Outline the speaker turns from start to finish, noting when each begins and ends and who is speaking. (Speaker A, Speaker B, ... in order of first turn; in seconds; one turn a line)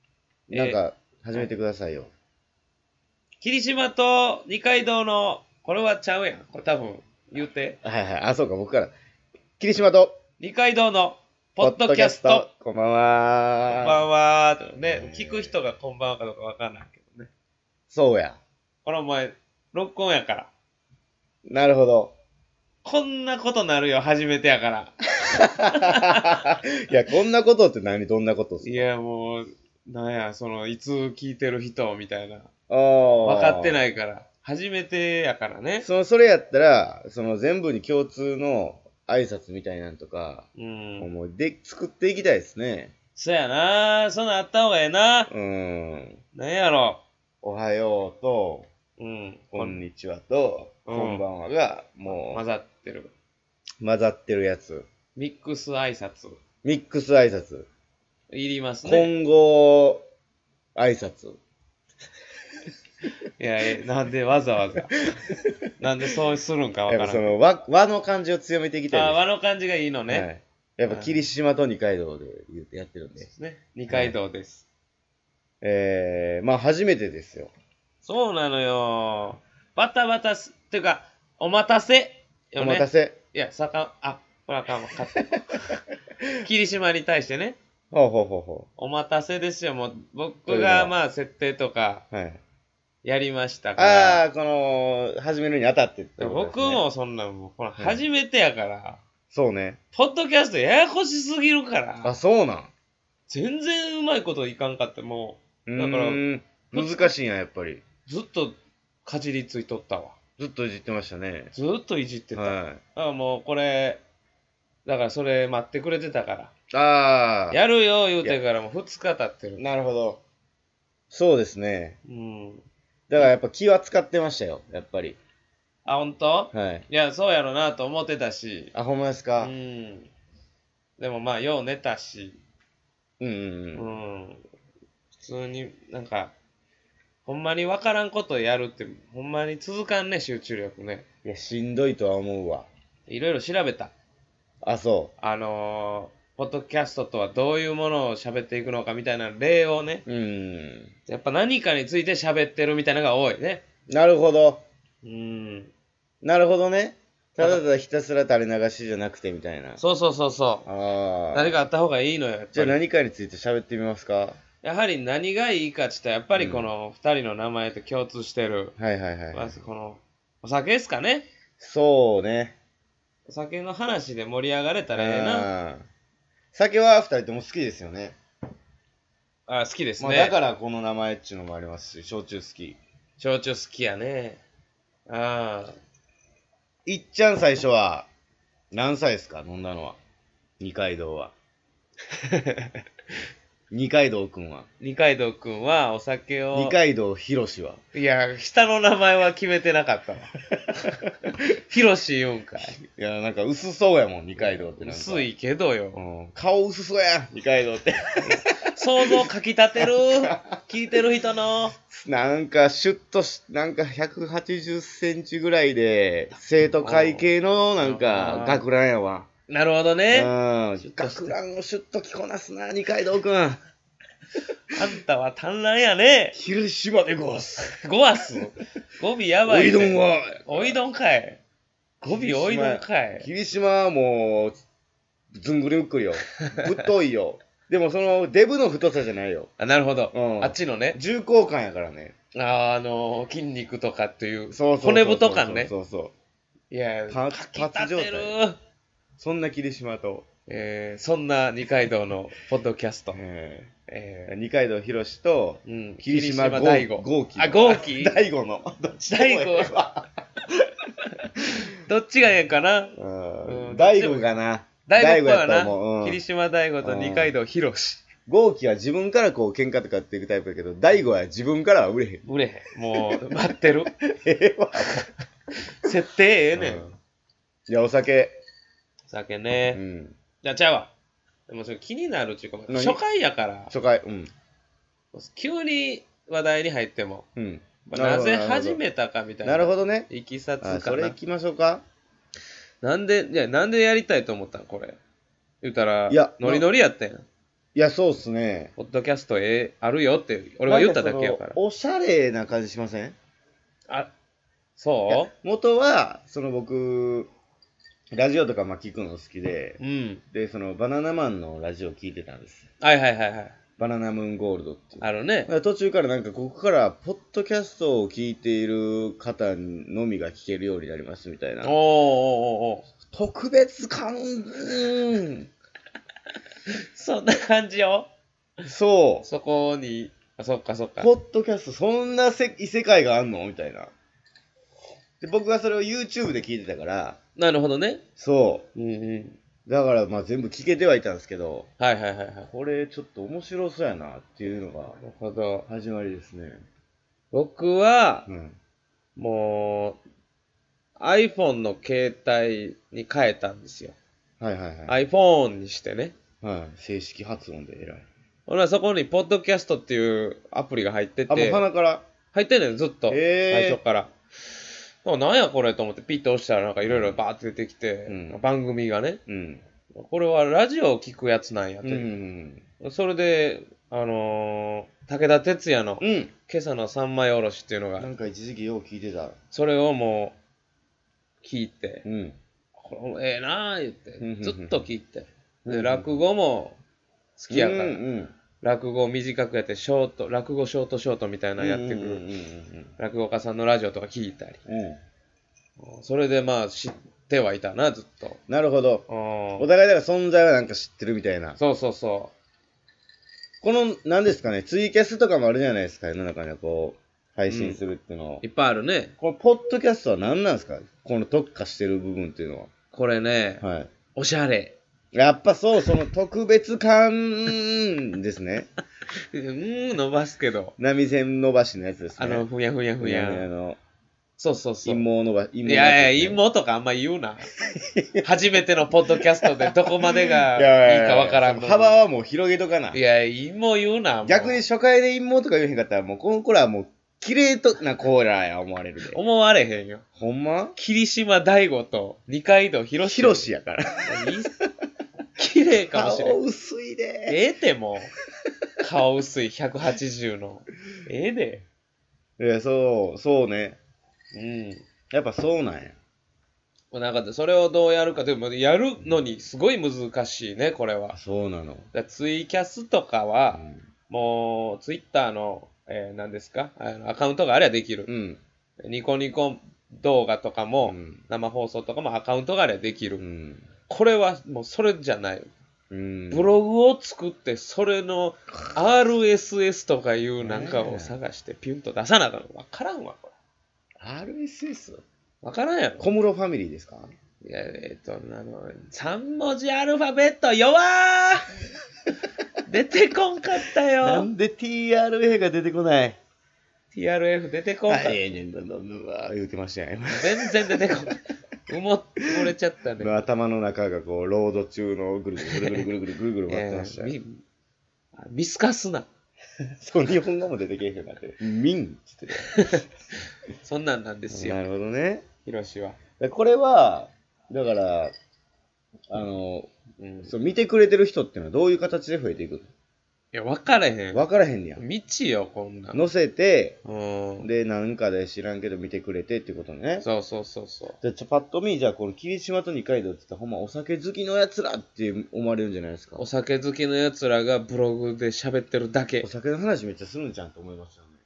Speaker A: 0.5-2.1
Speaker B: 0.5-0.8
Speaker B: 3.4-7.8
Speaker A: 7.8-8.9
Speaker A: 9.6-10.2
Speaker B: 10.4-12.5
Speaker A: 11.6-14.1
Speaker B: 13.7-17.3
Speaker A: 14.8-15.6
Speaker A: 17.9-18.4
Speaker B: 18.9-20.5
Speaker A: 21.4-22.1
Speaker B: 22.8-26.5
Speaker A: 25.4-28.9
Speaker B: 28.6-32.5
Speaker A: 32.7-33.8
Speaker B: 33.2-35.9
Speaker A: 35.8-40.5
Speaker B: 40.6-41.1
Speaker A: 41.0-42.9
Speaker B: 43.2-45.3
Speaker A: 45.3-46.2
Speaker B: 46.4-47.0
Speaker A: 47.4-48.7
Speaker B: 49.0-49.8
Speaker A: 49.5-52.4
Speaker B: 50.9-51.2
Speaker B: 52.1-53.1
Speaker A: 53.8-54.9
Speaker B: 55.1-56.4
Speaker A: 56.6-57.7
Speaker B: 58.3-59.1
Speaker A: 58.8-60.0
Speaker A: 60.8-61.4
Speaker B: 63.4-65.1
Speaker B: 65.8-67.4
Speaker A: 66.9-69.2
Speaker B: 68.9-70.3
Speaker A: 70.1-73.3
Speaker B: 70.9-71.2
Speaker B: 73.2-74.7
Speaker A: 73.9-74.2
Speaker A: 75.6-77.5
Speaker B: 78.0-85.8
Speaker A: 82.6-83.2
Speaker B: 86.4-87.6
Speaker A: 87.9-88.7
Speaker B: 88.8-92.0
Speaker A: 90.5-91.0
Speaker A: 92.1-92.4
Speaker B: 93.0-94.2
Speaker A: 93.8-96.8
Speaker B: 96.2-99.0
Speaker A: 97.8-98.0
Speaker A: 99.3-99.8
Speaker B: 99.9-102.2
Speaker A: 102.0-102.7
Speaker B: 103.3-107.2
Speaker A: 105.7-107.8
Speaker B: 108.1-110.2
Speaker A: 110.4-111.5
Speaker B: 111.5-114.0
Speaker A: 112.3-112.8
Speaker B: 114.9-116.5
Speaker A: 116.7-117.6
Speaker B: 117.5-119.6
Speaker A: 119.6-120.2
Speaker A: 121.1-122.0
Speaker B: 122.0-122.6
Speaker A: 123.1-125.2
Speaker B: 125.8-128.7
Speaker A: 126.5-126.9
Speaker A: 128.7-129.5
Speaker B: 129.4-130.1
Speaker B: 131.0-132.4
Speaker A: 133.2-133.9
Speaker B: 133.8-134.4
Speaker B: 135.2-136.3
Speaker B: 137.3-141.1
Speaker A: 141.2-142.7
Speaker B: 143.1-143.9
Speaker A: 144.6-145.1
Speaker B: 145.2-150.0
Speaker A: 150.1-150.9
Speaker B: 151.1-153.6
Speaker A: 153.9-154.6
Speaker B: 155.0-155.7
Speaker A: 156.2-159.8
Speaker B: 157.4-157.6
Speaker B: 159.8-160.7
Speaker A: 160.7-161.6
Speaker B: 161.3-162.8
Speaker A: 162.5-164.4
Speaker B: 164.6-168.8
Speaker A: 166.3-166.7
Speaker A: 168.8-169.6
Speaker B: 169.3-171.3
Speaker A: 171.6-172.6
Speaker B: 173.3-175.5
Speaker A: 174.9-175.9
Speaker A: 176.5-178.2
Speaker B: 179.5-180.3
Speaker A: 180.0-182.8
Speaker B: 183.2-184.4
Speaker B: 185.1-185.8
Speaker A: 186.9-188.1
Speaker A: 188.7-190.0
Speaker A: 190.6-191.3
Speaker B: 192.1-192.8
Speaker A: 193.7-194.7
Speaker B: 194.8-196.8
Speaker A: 196.5-197.8
Speaker B: 197.9-200.3
Speaker B: 201.6-202.8
Speaker A: 202.8-205.3
Speaker B: 204.4-206.0
Speaker A: 205.9-208.4
Speaker B: 208.2-211.7
Speaker A: 209.8-210.5
Speaker A: 211.9-219.3
Speaker B: 216.7-218.7
Speaker B: 219.5-221.4
Speaker A: 220.1-223.6
Speaker B: 224.7-226.4
Speaker A: 226.3-227.8
Speaker B: 227.7-231.4
Speaker A: 229.5-230.8
Speaker A: 232.0-234.6
Speaker B: 232.0-233.3
Speaker A: 235.3-239.5
Speaker B: 239.6-241.0
Speaker A: 240.1-242.1
Speaker B: 242.3-245.7
Speaker A: 244.5-246.1
Speaker B: 246.7-248.6
Speaker A: 247.1-248.4
Speaker A: 249.2-250.3
Speaker B: 250.5-253.2
Speaker A: 253.1-253.7
Speaker B: 253.9-254.3
Speaker A: 254.3-260.1
Speaker B: 255.6-258.2
Speaker B: 259.0-259.8
Speaker B: 261.4-268.1
Speaker A: 263.0-266.2
Speaker A: 266.8-267.4
Speaker A: 268.3-272.2
Speaker B: 272.2-273.9
Speaker A: 273.9-275.1
Speaker B: 275.6-276.9
Speaker A: 276.5-276.9
Speaker A: 277.7-278.4
Speaker B: 279.1-279.8
Speaker A: 279.7-280.2
Speaker B: 280.4-280.9
Speaker B: 281.5-283.7
Speaker A: 282.7-283.0
Speaker A: 283.7-284.3
Speaker B: 285.1-287.3
Speaker A: 287.4-288.8
Speaker B: 287.9-291.1
Speaker A: 289.4-290.1
Speaker A: 290.6-291.8
Speaker B: 292.8-295.0
Speaker B: 295.6-297.2
Speaker A: 296.1-296.7
Speaker A: 297.8-298.7
Speaker B: 298.8-301.6
Speaker A: 300.6-303.2
Speaker B: 304.8-305.3
Speaker A: 305.1-307.3
Speaker A: 308.1-309.8
Speaker B: 309.8-310.2
Speaker A: 310.3-312.7
Speaker B: 312.8-313.6
Speaker A: 313.8-321.7
Speaker B: 315.0-315.5
Speaker B: 321.6-322.9
Speaker A: 323.1-325.5
Speaker B: 326.7-328.1
Speaker A: 328.7-329.3
Speaker B: 329.2-331.1
Speaker A: 331.0-333.9
Speaker A: 335.2-337.2
Speaker B: 337.4-338.0
Speaker A: 338.2-338.7
Speaker B: 338.8-339.4
Speaker A: 339.7-341.7
Speaker B: 341.8-342.5
Speaker A: 342.5-345.0
Speaker B: 344.9-345.7
Speaker A: 345.7-346.6
Speaker B: 347.3-348.3
Speaker A: 348.3-348.6
Speaker B: 349.2-350.0
Speaker B: 351.0-354.0
Speaker A: 354.4-354.9
Speaker B: 354.9-356.1
Speaker A: 356.4-358.1
Speaker B: 358.5-361.6
Speaker A: 361.3-362.1
Speaker B: 362.3-364.1
Speaker A: 363.1-363.8
Speaker B: 365.0-369.2
Speaker A: 366.9-367.2
Speaker A: 368.1-368.4
Speaker A: 369.3-369.6
Speaker B: 369.9-372.1
Speaker A: 371.8-372.6
Speaker B: 372.8-378.1
Speaker A: 376.0-376.3
Speaker A: 378.0-379.4
Speaker B: 379.5-380.4
Speaker B: 381.4-382.0
Speaker A: 382.0-382.4
Speaker B: 382.8-386.8
Speaker A: 384.2-384.8
Speaker A: 385.6-386.2
Speaker B: 387.4-388.0
Speaker A: 387.5-388.4
Speaker B: 388.6-392.2
Speaker A: 391.6-392.9
Speaker B: 393.0-394.6
Speaker A: 394.7-395.0
Speaker B: 395.8-398.4
Speaker A: 398.5-399.1
Speaker B: 399.1-399.7
Speaker A: 399.6-401.6
Speaker B: 401.6-402.3
Speaker A: 403.6-408.4
Speaker B: 407.5-407.8
Speaker B: 408.4-409.1
Speaker A: 409.2-412.7
Speaker B: 412.9-413.6
Speaker A: 413.6-413.9
Speaker B: 414.1-414.8
Speaker A: 415.1-418.7
Speaker B: 419.3-420.8
Speaker A: 420.8-422.5
Speaker B: 422.2-423.5
Speaker A: 423.0-423.8
Speaker B: 424.4-425.1
Speaker A: 424.9-426.4
Speaker B: 425.6-427.5
Speaker A: 427.6-428.3
Speaker B: 428.2-432.0
Speaker A: 429.1-433.0
Speaker B: 432.9-434.6
Speaker A: 434.2-439.2
Speaker B: 439.1-440.0
Speaker A: 440.2-440.8
Speaker B: 440.8-443.5
Speaker A: 443.0-444.3
Speaker B: 444.1-444.5
Speaker B: 445.4-446.4
Speaker A: 445.9-447.4
Speaker B: 447.3-448.1
Speaker B: 448.8-451.7
Speaker A: 452.4-453.8
Speaker B: 454.3-454.8
Speaker A: 455.1-456.0
Speaker B: 456.9-461.2
Speaker A: 461.1-461.9
Speaker B: 461.9-468.1
Speaker A: 463.5-463.9
Speaker A: 468.1-468.4
Speaker B: 468.8-473.2
Speaker A: 470.8-471.3
Speaker A: 473.2-473.7
Speaker B: 473.9-475.5
Speaker A: 475.9-476.5
Speaker B: 476.3-483.4
Speaker A: 480.4-481.2
Speaker A: 484.0-485.0
Speaker B: 485.4-486.1
Speaker A: 486.0-487.1
Speaker B: 487.4-491.5
Speaker B: 492.6-494.3
Speaker A: 494.0-496.2
Speaker B: 496.9-498.2
Speaker A: 497.9-500.9
Speaker B: 500.1-503.1
Speaker A: 503.0-507.1
Speaker B: 505.4-505.9
Speaker B: 506.5-507.4
Speaker B: 508.1-509.1
Speaker A: 509.8-512.8
Speaker B: 512.5-512.9
Speaker B: 513.6-514.6
Speaker A: 514.3-515.2
Speaker B: 515.5-516.0
Speaker A: 516.2-518.1
Speaker A: 519.1-519.7
Speaker B: 520.0-520.3
Speaker A: 520.2-522.7
Speaker B: 523.3-524.2
Speaker A: 524.1-524.8
Speaker B: 524.8-526.0
Speaker A: 525.9-526.8
Speaker B: 526.8-527.5
Speaker A: 527.4-530.1
Speaker B: 530.0-531.0
Speaker A: 531.0-536.2
Speaker B: 536.2-539.3
Speaker A: 539.2-541.2